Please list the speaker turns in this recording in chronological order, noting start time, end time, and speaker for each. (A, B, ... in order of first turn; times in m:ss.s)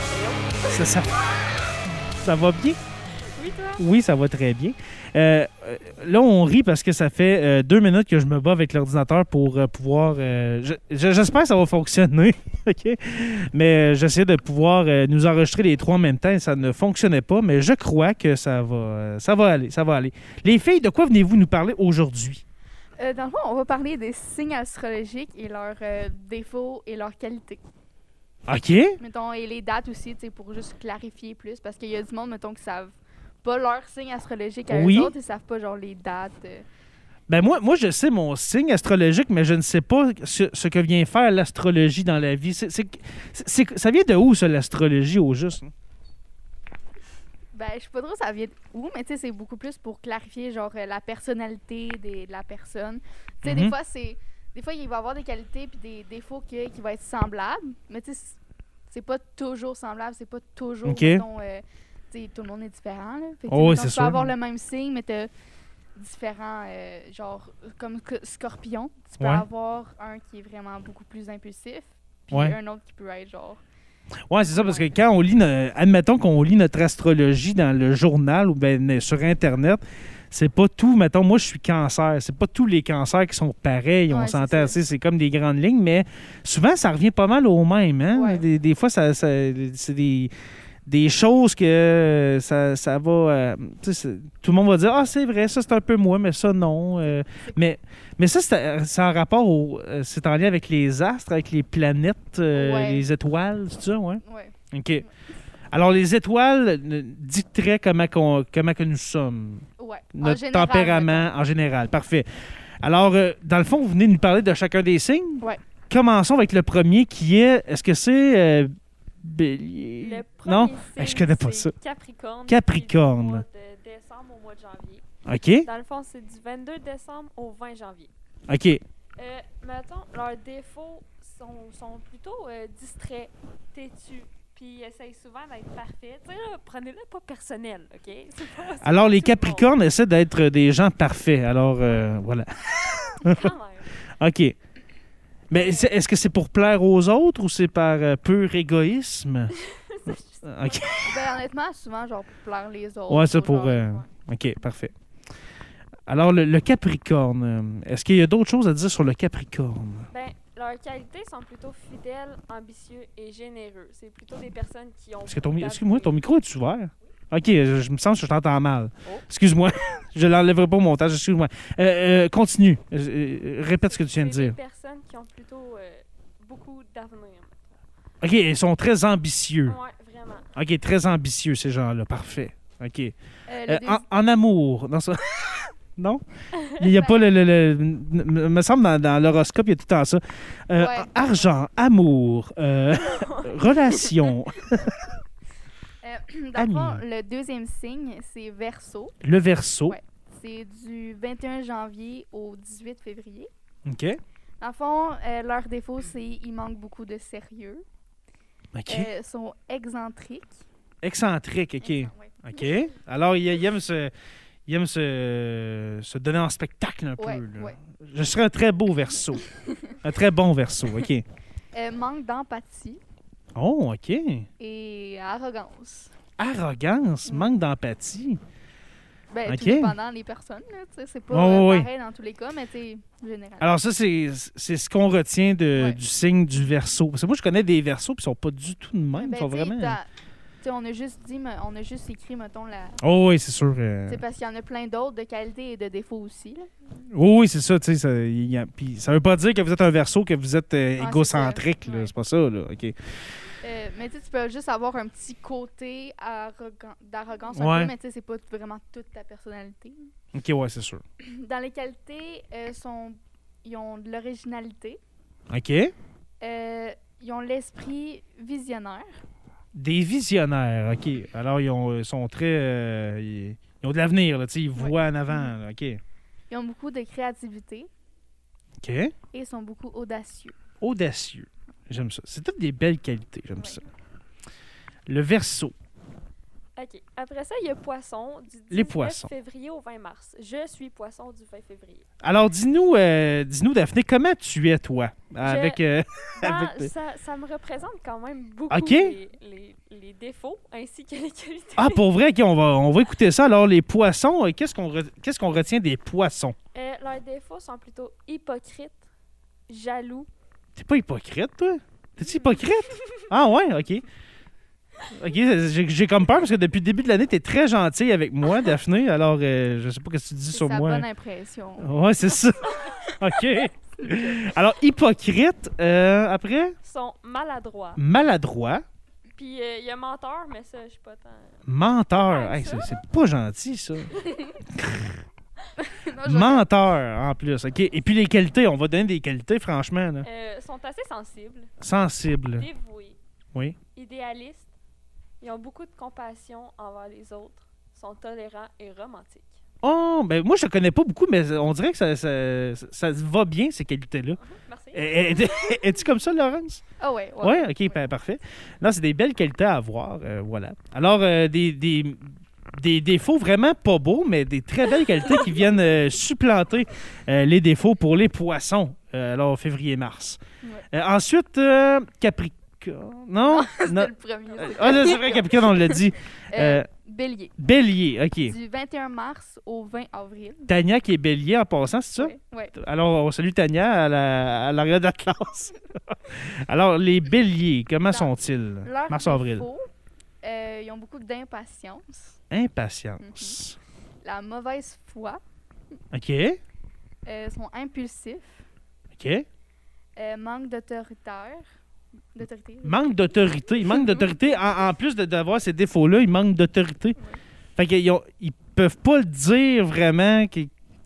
0:00.6-0:01.2 A
0:02.2-0:02.8 A
0:03.3-0:03.8 B
0:03.8-0:22.4 A
0:23.0-0:27.6 C
0:28.5-0:29.0 A
0:29.0-0:36.6 C
0:34.7-0:35.1 A
0:37.3-0:45.7 A
0:47.5-1:05.3 C
0:53.4-0:53.7 A
1:00.8-1:01.2 A
1:03.5-1:04.3 A
1:06.0-1:13.6 C
1:09.2-1:09.4 A
1:12.3-1:12.6 A
1:14.3-1:30.3 A
1:14.5-1:14.9 C
1:24.1-1:24.8 C
1:28.1-1:28.4 C
1:30.8-1:45.0 A
1:42.5-1:43.1 C
1:44.2-1:45.1 C
1:45.7-1:52.3 A
1:49.8-1:51.3 C
1:52.8-2:01.7 A
2:00.0-2:05.0 B
2:02.5-2:03.4 A
2:05.2-2:05.7 A
2:05.6-2:08.1 B
2:08.5-2:08.8 A
2:09.2-2:19.7 B
2:18.8-2:23.5 A
2:23.2-2:24.0 B
2:24.0-2:24.6 A
2:25.5-2:29.6 A
2:25.5-2:25.9 B
2:29.6-2:31.2 B
2:30.1-2:31.2 A
2:31.0-2:34.0 C
2:33.1-2:34.9 A
2:36.1-2:40.1 A
2:40.1-2:46.2 B
2:45.3-2:54.6 A
2:53.9-2:57.6 B
2:58.2-2:59.8 A
2:59.6-3:00.5 B
3:00.5-3:03.1 A
3:03.5-3:04.0 C
3:03.7-3:15.2 A
3:06.9-3:07.2 C
3:10.8-3:11.4 C
3:13.0-3:14.2 B
3:16.0-3:19.2 C
3:16.6-3:17.0 A
3:19.2-3:20.0 A
3:19.9-3:23.5 C
3:23.8-3:24.2 A
3:24.6-3:27.8 C
3:28.7-3:29.1 A
3:28.9-3:30.6 C
3:31.0-3:34.1 A
3:31.8-3:32.4 C
3:34.7-3:39.4 A
3:37.2-3:37.8 C
3:39.4-3:40.0 C
3:40.0-3:41.2 A
3:41.7-3:43.0 C
3:43.5-3:44.5 A
3:44.6-3:46.1 C
3:46.4-3:48.4 A
3:47.2-3:47.5 C
3:49.3-3:53.7 C
3:49.4-3:50.0 A
3:51.3-3:51.9 A
3:53.6-4:00.0 A
3:55.7-3:56.0 C
3:59.1-4:00.1 C
4:00.6-4:03.0 C
4:03.0-4:04.2 A
4:04.1-4:06.7 C
4:07.1-4:12.9 A
4:11.0-4:12.1 C
4:13.6-4:20.1 C
4:17.5-4:17.9 A
4:20.3-4:21.0 A
4:21.2-4:25.0 C
4:25.5-4:25.9 A
4:26.4-4:29.2 C
4:29.7-4:36.0 A
4:34.8-4:35.5 C
4:36.5-4:37.9 C
4:38.8-4:39.1 A
4:39.3-4:40.6 C
4:40.8-4:43.8 A
4:45.1-4:45.7 A
4:46.8-4:52.0 B
4:48.7-4:49.3 A
4:52.2-4:56.9 A
4:55.4-4:55.8 B
4:56.4-5:02.0 B
4:58.7-4:59.2 A
5:01.8-5:06.6 A
5:06.7-5:09.1 B
5:09.7-5:10.3 B
5:10.7-5:14.0 A
5:12.3-5:13.2 B
5:15.1-5:21.0 A
5:20.5-5:21.9 C
5:21.8-5:26.8 A
5:26.8-5:28.0 B
5:28.0-5:28.8 A
5:29.4-5:31.6 B
5:31.6-5:35.2 A
5:32.2-5:32.9 B
5:35.8-5:36.7 C
5:36.2-5:40.3 A
5:40.2-5:41.7 B
5:41.8-5:42.7 A
5:42.5-5:43.2 B
5:43.9-5:44.7 B
5:45.4-5:49.6 B
5:49.8-5:54.4 A
5:54.4-5:55.9 B
5:54.9-5:56.8 A
5:57.0-5:58.1 C
5:57.4-6:10.4 A
6:10.9-6:16.9 A
6:13.4-6:17.6 C
6:17.6-6:18.6 A
6:18.4-6:20.7 C
6:20.7-6:29.7 A
6:22.2-6:22.7 C
6:28.8-6:29.9 C
6:30.4-6:32.4 C
6:32.5-6:33.8 A
6:33.2-6:33.6 C
6:34.2-6:35.4 C
6:36.1-6:36.6 A
6:37.2-6:38.6 C
6:39.1-6:39.4 A
6:40.2-6:41.7 C
6:42.3-6:44.3 C
6:42.8-6:47.2 A
6:47.8-6:50.7 A